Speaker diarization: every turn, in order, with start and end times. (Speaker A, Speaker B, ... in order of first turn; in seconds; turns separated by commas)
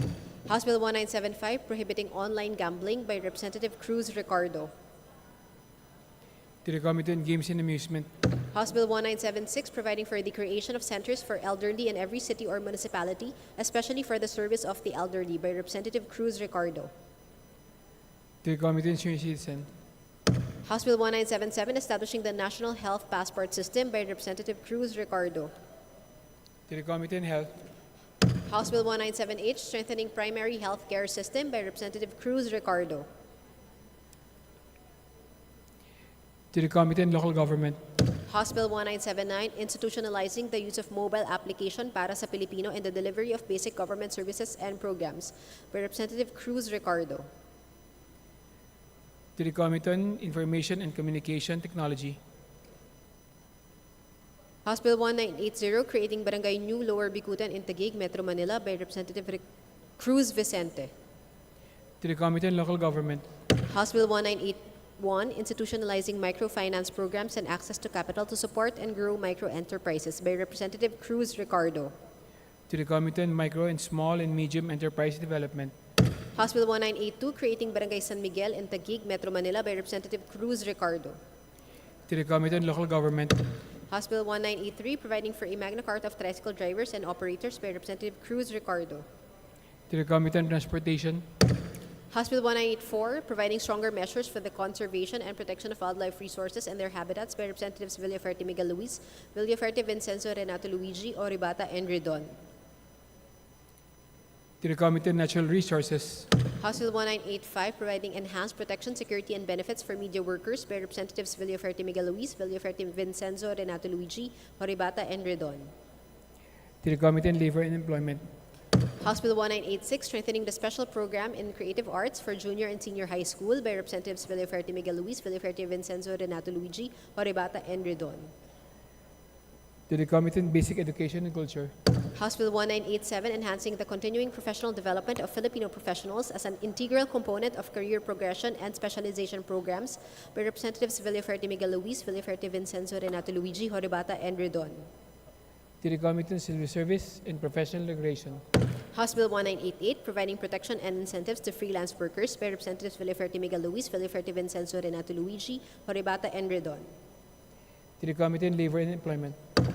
Speaker A: 0.5-4.7, Speaker B: 6.6-8.1, Speaker A: 8.5-16.9, Speaker B: 18.4-19.7, Speaker A: 20.6-25.5, Speaker B: 26.7-27.5, Speaker A: 28.4-33.1, Speaker B: 36.5-37.8, Speaker A: 38.2-47.3, Speaker B: 49.4-52.2, Speaker A: 54.6-59.4, Speaker A: 60.0-60.9, Speaker B: 62.0-63.3, Speaker A: 63.6-71.9, Speaker B: 72.7-75.7, Speaker A: 76.3-81.2, Speaker B: 82.1-83.4, Speaker A: 83.9-89.0, Speaker B: 89.9-91.2, Speaker A: 92.1-102.3, Speaker B: 104.6-106.3, Speaker A: 106.6-115.7, Speaker B: 116.8-118.2, Speaker A: 119.0-128.3, Speaker B: 129.9-131.7, Speaker A: 132.1-144.9, Speaker B: 145.8-148.4, Speaker A: 148.9-156.9, Speaker B: 158.0-159.4